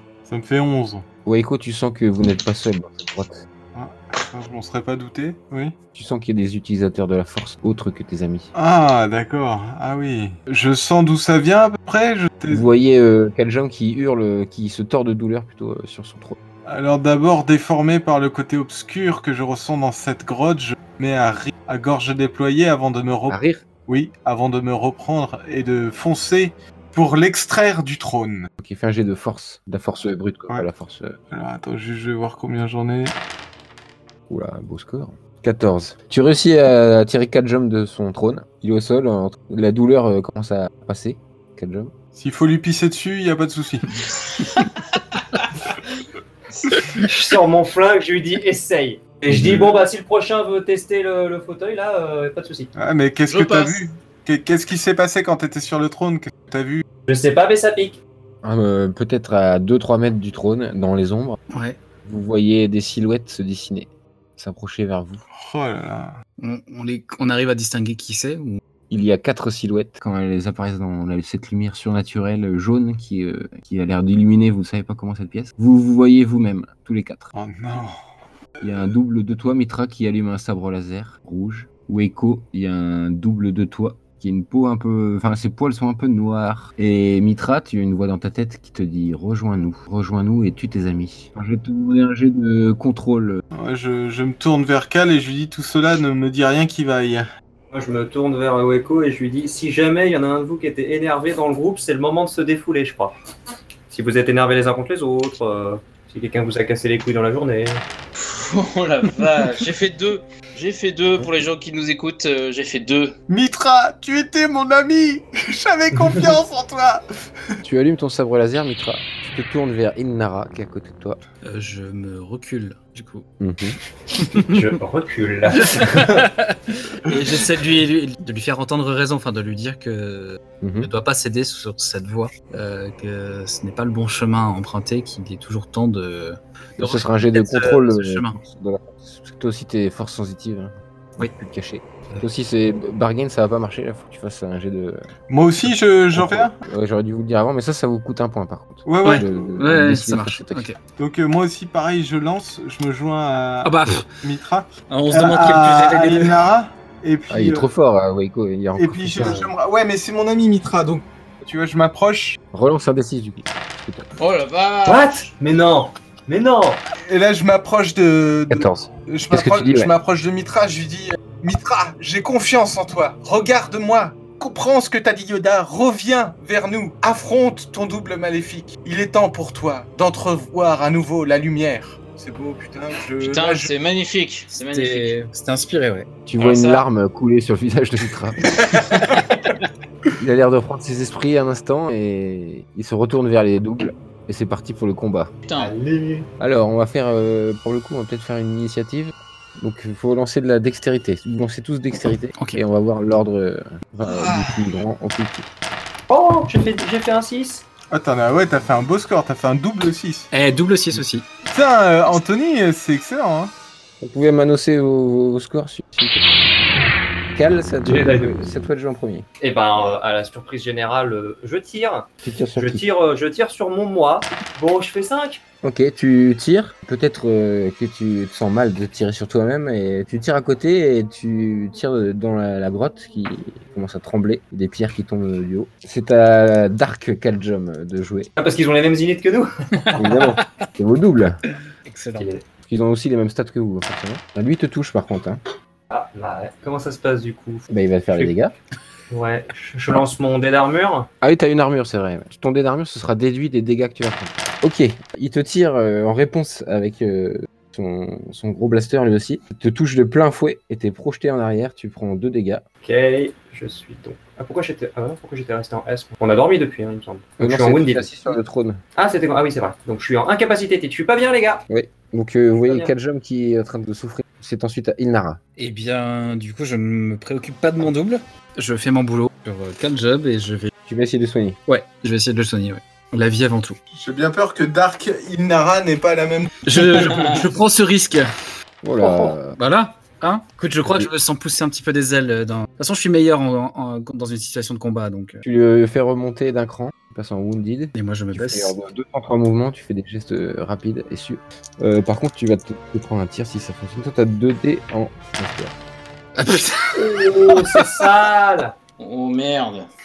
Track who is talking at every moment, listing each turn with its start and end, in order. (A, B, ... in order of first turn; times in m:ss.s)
0:00.3-0:01.0 A
0:01.2-0:03.4 B
0:03.7-0:05.8 A
0:05.9-0:08.5 B
0:08.5-0:12.7 A
0:12.5-0:16.4 B
0:16.6-0:28.5 A
0:23.3-0:23.6 B
0:28.6-0:31.2 B
0:31.3-0:33.2 A
0:34.3-0:41.9 B
0:42.2-0:44.1 A
0:47.0-0:52.7 C
0:49.3-0:49.6 B
0:52.7-0:56.8 A
0:53.3-0:53.8 D
0:57.1-0:58.0 C
0:58.4-1:01.4 B
1:01.5-1:01.8 E
1:02.0-1:05.2 B
1:05.4-1:06.2 A
1:06.4-1:08.6 E
1:08.9-1:17.3 B
1:17.3-1:18.0 A
1:18.6-1:33.4 B
1:33.5-1:37.3 A
1:37.7-1:43.2 C
1:43.9-1:47.8 C
1:48.2-1:53.2 D
1:53.3-1:57.0 A
1:57.6-2:01.2 B
2:01.4-2:03.3 E
2:03.4-2:03.8 B
2:04.2-2:04.7 E
2:04.4-2:06.2 C
2:05.5-2:18.4 E
2:10.6-2:10.9 B
2:16.8-2:25.1 B
2:25.3-2:26.6 A
2:25.6-2:30.7 B
2:28.8-2:29.4 A
2:29.0-2:30.8 E
2:31.0-2:37.7 A
2:33.6-2:34.1 E
2:34.9-2:36.4 E
2:37.3-2:39.4 B
2:38.8-2:42.4 A
2:39.2-2:39.5 C
2:42.5-2:44.1 B
2:44.2-2:45.2 D
2:44.8-2:46.8 C
2:47.0-3:03.7 A
2:48.5-2:49.9 B
3:03.2-3:05.1 D
3:04.7-3:06.1 E
3:06.3-3:08.6 B
3:06.4-3:06.8 D
3:10.2-3:15.3 B
3:15.5-3:15.7 D
3:15.6-3:16.3 C
3:16.4-3:25.5 B
3:24.2-3:24.6 E
3:26.1-3:27.6 C
3:27.9-3:30.3 A
3:30.3-3:31.3 E
3:31.5-3:33.5 A
3:34.0-3:36.2 B
3:37.3-3:39.2 B
3:37.8-3:38.4 C
3:39.4-3:45.4 C
3:42.2-3:42.8 B
3:45.6-3:58.3 B
3:58.4-4:00.0 C
3:59.8-4:00.4 E
4:00.0-4:01.4 B
4:01.8-4:02.3 E
4:02.6-4:05.4 B
4:05.9-4:08.3 C
4:07.7-4:08.5 B
4:09.1-4:11.1 C
4:11.2-4:22.6 B
4:22.8-4:28.4 C
4:27.4-4:28.8 B
4:29.0-4:31.6 C
4:31.7-4:35.4 B
4:32.6-4:32.9 C
4:35.6-4:40.7 E
4:40.8-4:41.6 B
4:41.7-4:43.8 E
4:43.9-4:47.3 A
4:46.6-4:48.3 E
4:48.8-4:49.6 B
4:49.0-4:55.4 E
4:50.8-4:51.1 B
4:55.4-5:05.7 B
4:57.9-4:58.8 E
5:06.4-5:06.7 D
5:06.9-5:08.7 C
5:09.0-5:09.9 D